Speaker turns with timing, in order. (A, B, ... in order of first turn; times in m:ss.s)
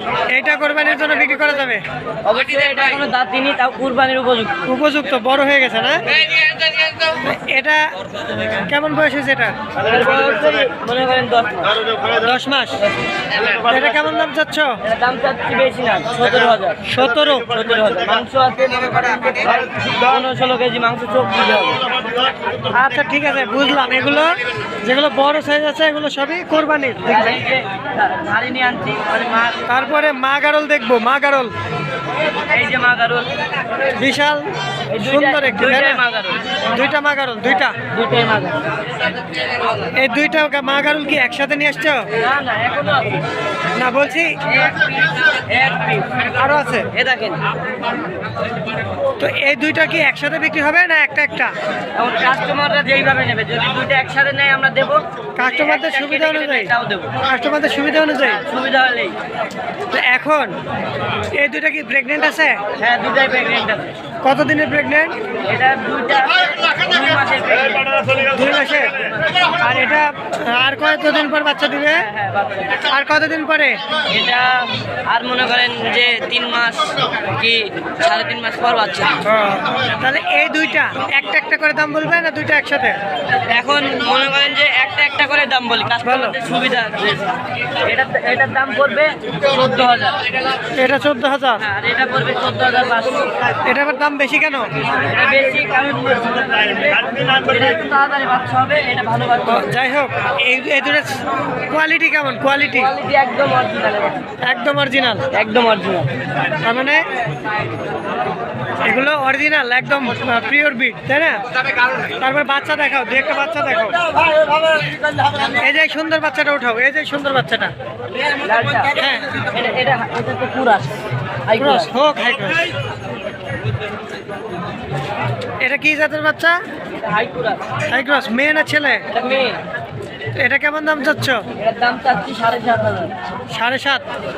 0:00.3-0:01.8 A
0:02.2-0:04.7 B
0:04.6-0:06.2 A
0:07.1-0:07.8 A
0:08.5-0:09.6 A
0:09.8-0:12.0 B
0:12.1-0:12.8 A
0:13.5-0:14.8 A
0:14.8-0:16.8 B
0:16.8-0:17.5 A
0:17.4-0:21.9 B
0:22.7-0:27.4 A
0:27.0-0:29.6 B
0:29.7-0:31.5 A
0:32.5-0:33.3 B
0:33.9-0:36.0 A
0:34.9-0:36.5 B
0:36.7-0:37.8 A
0:37.8-0:38.7 B
0:39.9-0:42.1 A
0:42.1-0:43.2 B
0:43.7-0:44.4 A
0:44.4-0:46.3 B
0:46.3-0:46.9 A
0:46.9-0:47.4 B
0:49.2-0:51.5 A
0:51.9-0:57.2 B
0:55.4-0:56.7 A
0:57.2-0:58.4 A
0:58.3-0:59.2 B
0:59.9-1:00.6 A
1:01.3-1:02.6 A
1:02.8-1:03.9 B
1:04.2-1:05.2 A
1:05.4-1:09.4 B
1:08.2-1:09.0 A
1:09.6-1:12.1 A
1:11.9-1:12.8 B
1:12.9-1:13.8 A
1:14.1-1:19.2 B
1:19.3-1:23.0 A
1:23.5-1:27.2 B
1:26.0-1:26.4 A
1:27.8-1:30.3 B
1:30.7-1:31.6 A
1:31.6-1:33.4 B
1:33.6-1:34.7 A
1:34.8-1:39.7 B
1:39.4-1:42.9 A
1:42.7-1:44.3 B
1:44.4-1:45.2 A
1:45.3-1:46.1 B
1:46.6-1:47.0 A
1:48.8-1:51.4 A
1:52.2-1:54.0 A
1:55.5-1:57.7 A
1:58.2-2:01.9 B
1:59.0-1:59.2 A
2:01.6-2:02.7 A
2:05.6-2:06.6 A
2:07.0-2:07.6 B
2:07.9-2:09.0 A
2:09.1-2:09.6 B
2:10.4-2:11.4 A
2:11.5-2:13.1 B
2:13.5-2:14.0 A